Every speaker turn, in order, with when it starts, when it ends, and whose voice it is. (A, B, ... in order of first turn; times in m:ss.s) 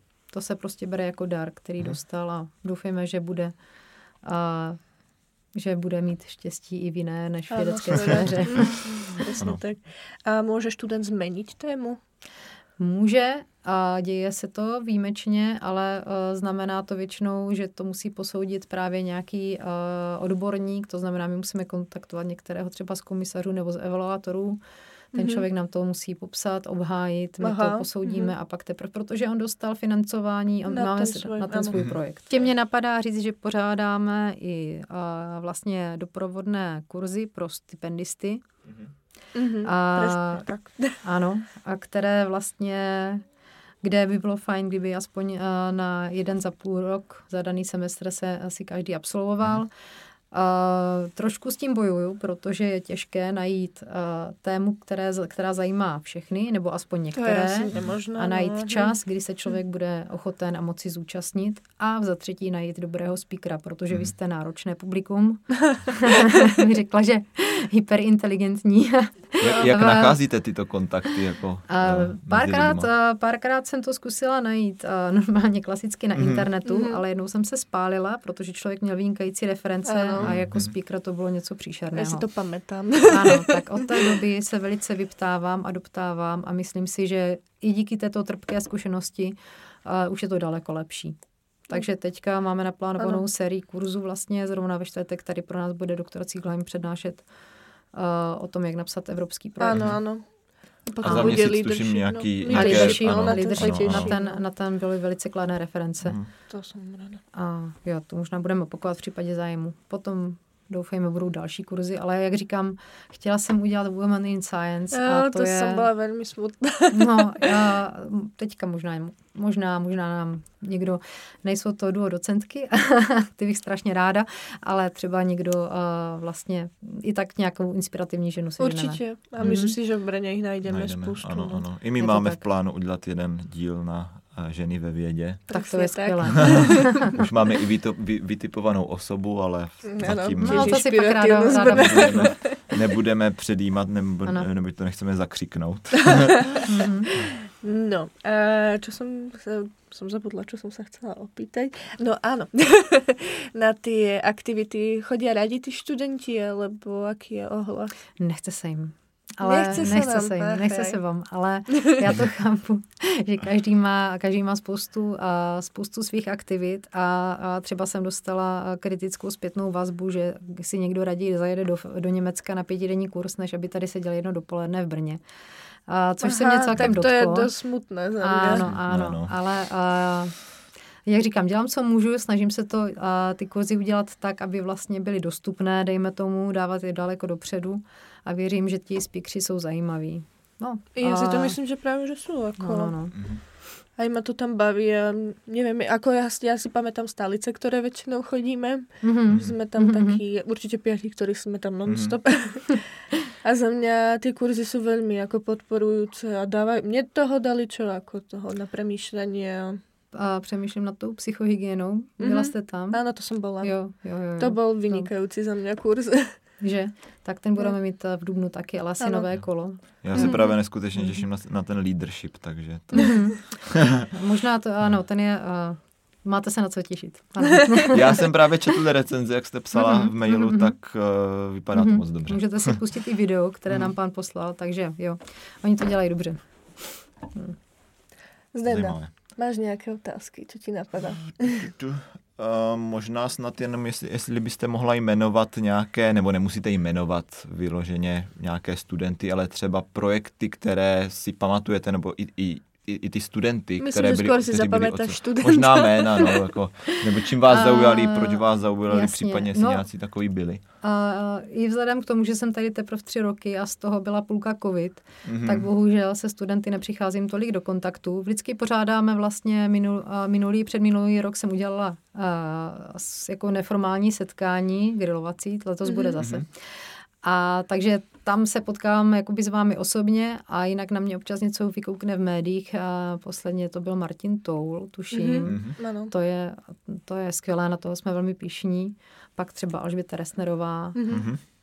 0:00.3-0:03.5 A
0:04.2-0:04.8 A
0:05.6-0:09.1 A
0:07.5-0:12.0 B
0:12.8-0:24.6 A
0:25.1-0:38.4 A
0:25.1-0:25.4 B
0:27.4-0:28.3 B
0:30.7-0:31.8 B
0:39.3-0:41.0 B
0:39.6-0:40.4 A
0:41.0-0:43.2 A
0:43.8-0:49.7 A
0:50.3-1:10.2 A
0:57.1-0:59.0 B
1:09.4-1:12.9 C
1:11.7-1:22.2 A
1:16.2-1:16.4 C
1:16.6-1:17.0 B
1:19.9-1:20.3 B
1:20.2-1:20.7 C
1:21.9-1:24.2 B
1:23.1-1:31.2 A
1:31.7-1:37.2 A
1:37.9-1:39.9 A
1:39.6-1:40.2 B
1:40.9-1:44.4 B
1:41.0-1:44.1 C
1:41.0-1:41.4 A
1:42.5-1:46.2 A
1:46.0-1:46.3 C
1:46.5-1:47.2 B
1:47.3-1:55.9 A
1:54.9-1:57.6 B
1:56.9-2:09.8 A
2:08.6-2:11.6 B
2:10.6-2:15.4 C
2:12.0-2:12.4 A
2:15.5-2:17.2 B
2:15.5-2:17.1 A
2:16.5-2:20.8 C
2:19.8-2:22.6 B
2:20.4-2:22.3 A
2:21.6-2:26.5 C
2:26.1-2:37.9 B
2:26.6-2:27.1 A
2:38.2-2:55.2 A
2:39.4-2:41.0 B
2:55.9-2:57.5 A
2:56.2-2:58.6 B
2:58.2-3:00.3 A
2:58.5-2:59.3 C
3:01.0-3:11.6 A
3:11.0-3:12.9 B
3:12.6-3:13.2 A
3:13.2-3:13.4 C
3:14.0-3:29.8 B
3:19.0-3:20.2 A
3:19.3-3:19.6 C
3:21.9-3:22.2 C
3:30.1-3:33.0 A
3:32.2-3:33.8 B
3:33.6-3:35.1 A
3:34.4-3:36.4 B
3:36.6-3:40.4 A
3:39.0-3:39.3 B
3:40.0-3:44.0 C
3:40.1-3:40.5 B
3:43.0-3:43.6 A
3:44.1-3:48.2 A
3:47.9-3:52.8 C
3:49.8-3:50.7 A
3:51.7-3:56.4 A
3:57.3-3:57.6 A
3:58.5-4:01.7 B
3:58.7-3:59.1 C
4:01.6-4:20.6 C
4:13.8-4:16.5 B
4:17.5-4:19.8 A
4:20.8-4:51.0 A
4:25.2-4:25.7 C
4:36.2-4:36.4 C
4:45.1-4:46.1 B
4:45.4-4:45.7 C
4:50.9-4:51.3 B
4:51.1-4:51.4 C